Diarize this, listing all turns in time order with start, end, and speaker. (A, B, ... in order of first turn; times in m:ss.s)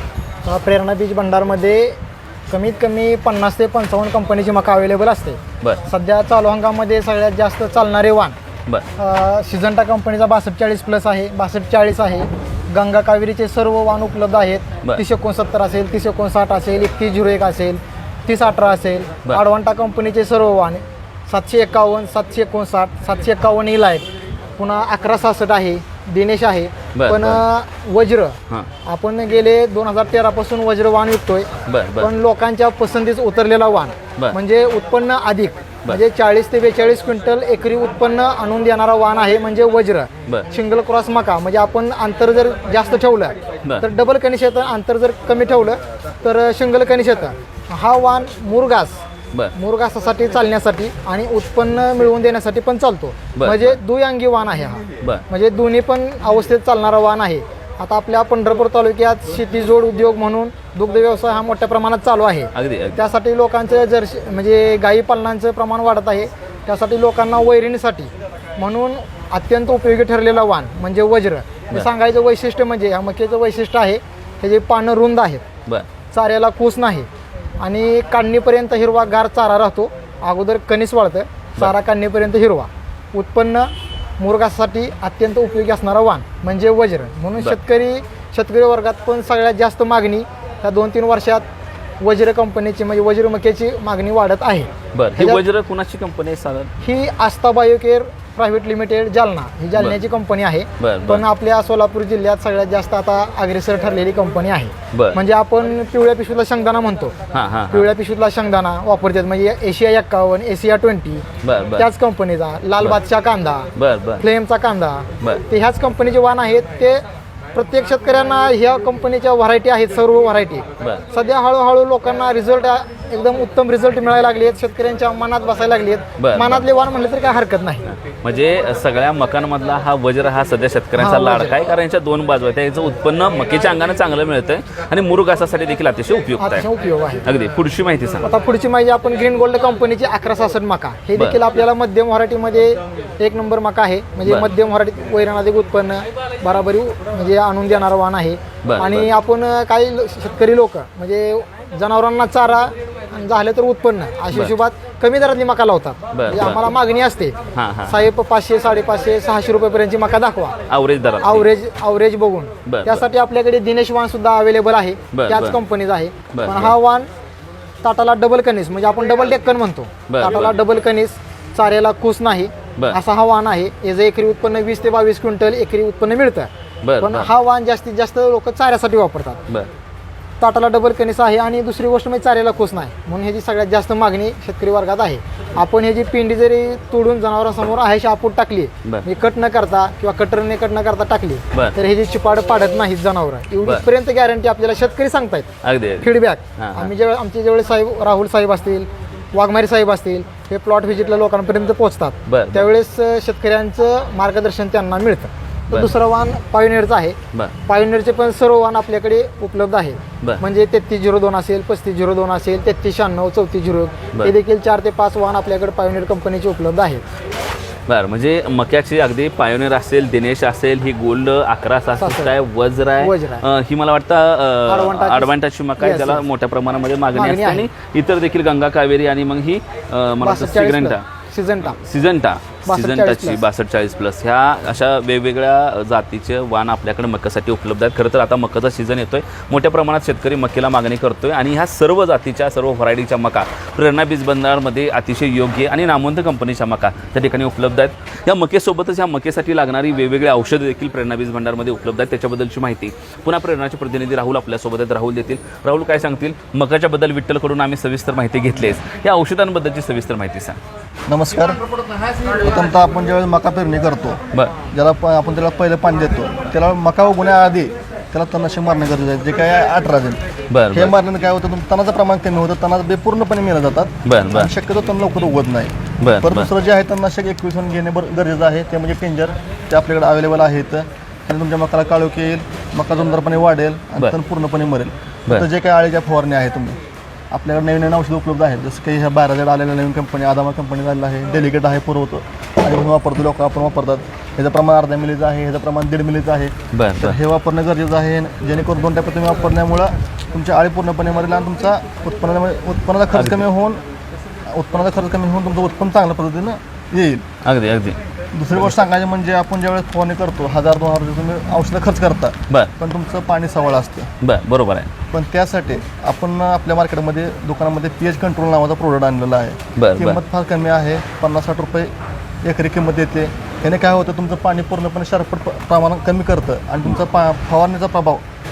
0:00.4-0:02.0 A
0:02.5-0:08.4 A
0:09.0-0:24.0 A
0:24.6-0:49.0 A
0:27.0-0:27.4 B
0:31.7-0:32.1 B
0:49.6-1:15.4 A
0:53.4-0:53.8 B
1:02.5-1:03.0 B
1:16.1-1:17.1 A
1:17.6-1:31.4 A
1:32.0-1:35.4 A
1:34.9-1:36.7 B
1:36.8-1:47.1 A
1:40.8-1:41.2 B
1:44.9-1:45.2 B
1:47.3-1:47.9 B
1:47.7-1:51.2 A
1:51.4-1:51.9 B
1:51.8-1:57.0 A
1:53.8-1:54.2 B
1:57.6-2:07.8 A
2:06.2-2:06.7 B
2:07.9-2:16.7 B
2:11.0-2:11.5 A
2:16.4-2:17.2 A
2:17.2-2:18.3 B
2:18.2-2:37.4 A
2:28.6-2:29.1 B
2:36.1-2:36.6 B
2:37.6-2:38.0 B
2:37.9-2:40.6 A
2:40.7-2:41.5 B
2:41.2-2:47.1 A
2:42.7-2:43.0 B
2:45.1-2:45.6 B
2:46.3-2:46.7 B
2:47.8-2:56.5 A
2:50.1-2:50.6 B
2:56.8-2:57.3 B
2:57.0-2:59.4 A
3:00.4-3:15.5 A
3:15.6-3:16.9 B
3:16.0-3:37.0 A
3:22.3-3:22.7 B
3:37.9-3:51.0 B
3:42.0-3:42.4 A
3:43.0-3:43.4 A
3:44.7-3:46.2 A
3:47.1-3:47.7 A
3:50.2-3:51.8 A
3:51.6-4:20.6 B
3:52.7-3:53.4 A
4:21.1-4:21.6 C
4:22.4-4:24.2 C
4:24.7-4:46.8 C
4:30.5-4:30.9 B
4:34.0-4:34.5 B
4:36.0-4:36.5 B
4:47.3-5:03.8 C
4:56.7-4:57.2 B
5:03.1-5:03.4 B
5:04.5-5:07.2 C
5:07.4-5:08.0 B
5:08.3-5:14.1 C
5:14.2-5:14.9 B
5:15.1-5:21.9 C
5:19.8-5:20.2 B
5:22.4-5:28.2 C